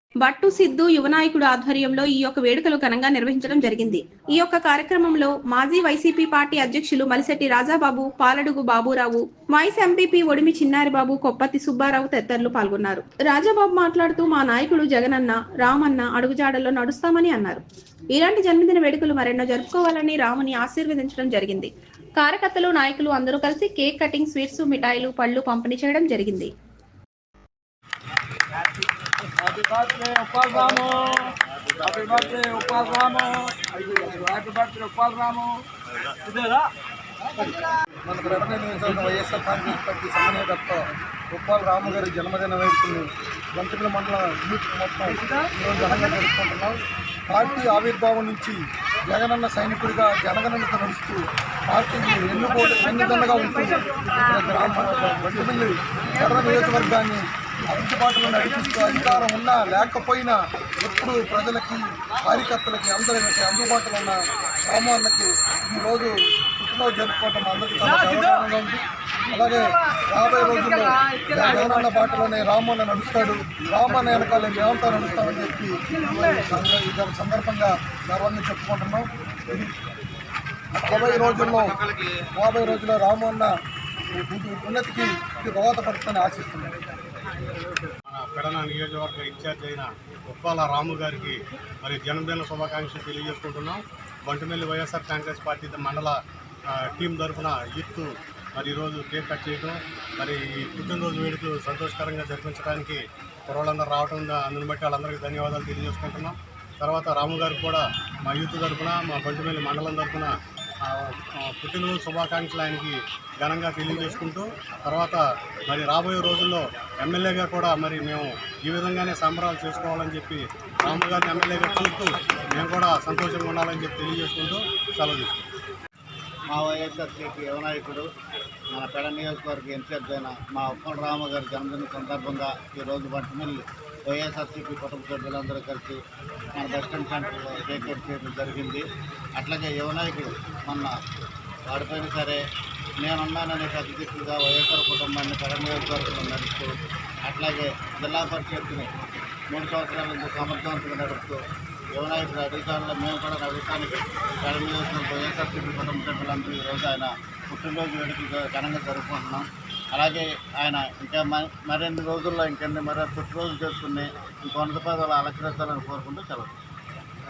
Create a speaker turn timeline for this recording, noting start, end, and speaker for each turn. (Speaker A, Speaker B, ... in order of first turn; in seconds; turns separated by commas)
Speaker A: 0.2-17.6, Speaker A: 18.1-26.5, Speaker B: 29.4-35.6, Speaker C: 30.5-30.9, Speaker C: 31.8-32.5, Speaker B: 36.2-36.7, Speaker D: 38.0-79.7, Speaker D: 80.7-81.8, Speaker D: 82.3-83.5, Speaker D: 84.2-86.7, Speaker E: 88.1-110.3, Speaker E: 110.8-125.5, Speaker C: 126.5-128.1, Speaker C: 128.7-136.0, Speaker C: 136.5-138.8, Speaker C: 139.3-140.9, Speaker C: 141.7-142.4, Speaker C: 143.0-148.9, Speaker C: 149.5-151.4, Speaker C: 151.9-166.5